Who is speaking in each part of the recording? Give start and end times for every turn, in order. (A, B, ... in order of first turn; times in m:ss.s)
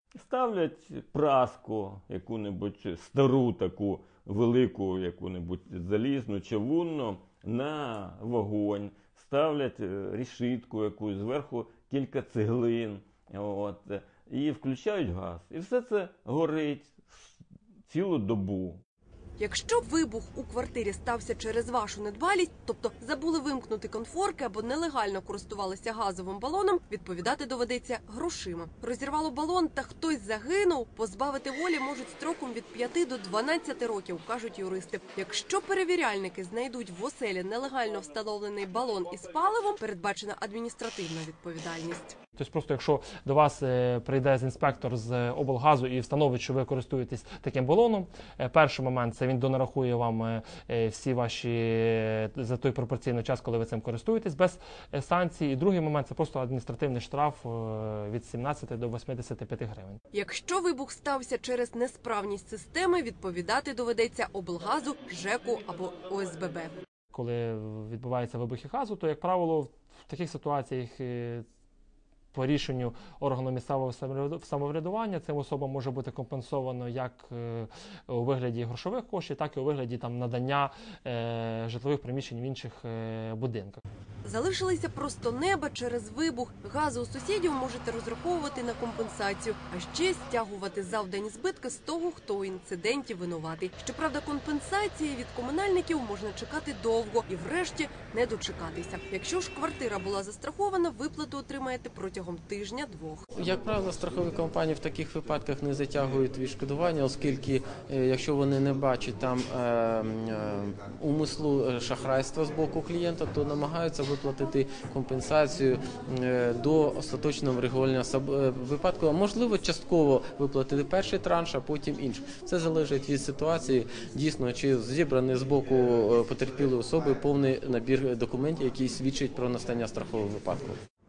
0:00.2-0:17.4 A
0:17.9-0:18.8 A
0:19.4-0:42.2 B
0:42.4-1:00.0 C
1:00.1-1:06.7 B
1:07.1-1:11.4 C
1:12.3-1:23.8 C
1:24.2-1:43.2 B
1:43.4-2:10.8 D